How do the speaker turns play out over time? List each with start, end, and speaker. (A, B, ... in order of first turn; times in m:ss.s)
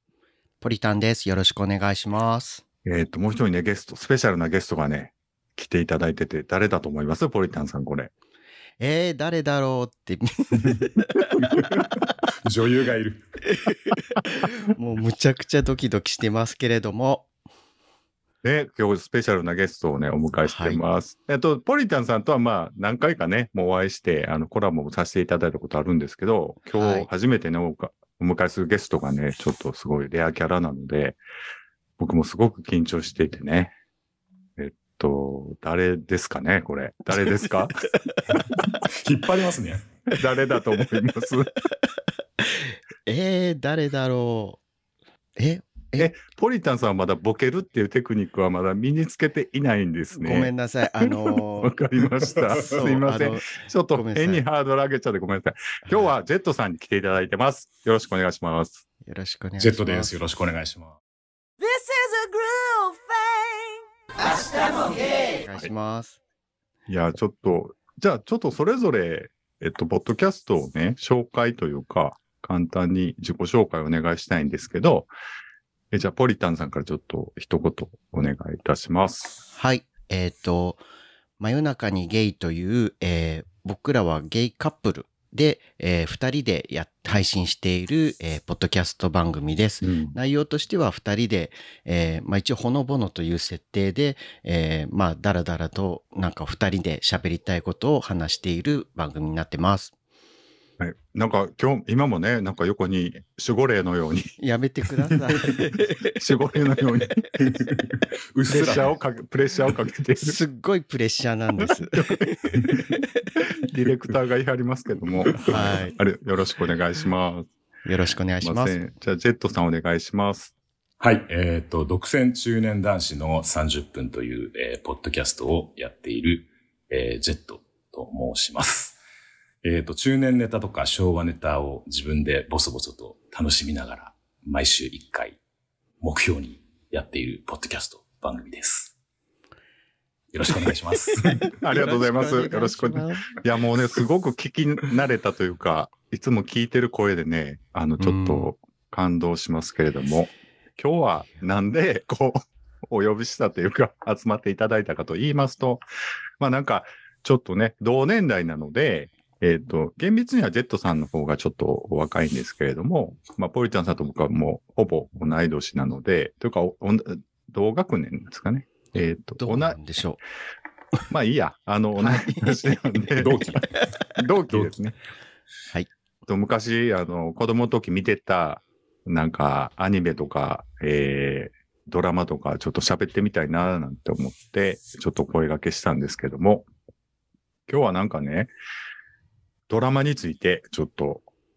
0:00.6-0:02.6 A
0:02.8-0:08.1 B
0:08.8-0:11.4 A
0:11.3-0:13.2 C
0:13.5-0:17.2 A
0:18.4-0:31.2 B
0:20.4-0:20.8 A
0:26.7-0:27.1 A
0:32.0-0:33.7 B
0:34.6-0:37.9 B
0:38.8-0:39.8 C
0:40.1-0:41.5 B
0:42.4-0:44.6 A
0:45.4-0:46.1 A
0:46.0-0:58.8 B
0:50.1-0:51.8 A
0:52.5-0:52.8 C
0:52.7-0:54.4 A
0:55.8-0:56.1 A
0:59.0-1:00.1 A
0:59.6-1:01.0 C
1:01.6-1:05.1 D
1:05.4-1:06.2 A
1:06.9-1:15.1 B
1:15.9-1:19.4 B
1:19.5-1:20.8 A
1:21.4-1:39.9 A
1:29.8-1:30.2 B
1:40.8-1:44.3 B
1:44.4-1:46.2 A
1:46.2-1:47.2 B
1:47.4-1:48.9 C
1:48.5-1:50.4 B
1:48.5-1:48.9 A
1:50.2-1:53.2 A
1:51.9-1:52.2 B
1:53.4-1:57.5 B
1:55.4-1:56.0 A
1:55.5-1:55.8 C
1:57.8-1:58.8 A
1:58.4-2:00.5 B
2:01.0-2:09.0 C
2:09.6-2:15.4 C
2:16.0-2:18.9 C
2:20.3-2:21.4 C
2:21.3-2:23.3 A
2:21.6-2:35.8 B
2:28.0-2:28.5 A
2:36.4-2:49.8 B
2:49.4-2:50.2 A
2:51.1-2:53.6 B
2:52.0-2:52.6 A
2:53.2-2:53.8 C
2:54.2-2:55.0 B
2:56.2-3:06.7 B
3:07.7-3:08.5 B
3:09.7-3:11.2 B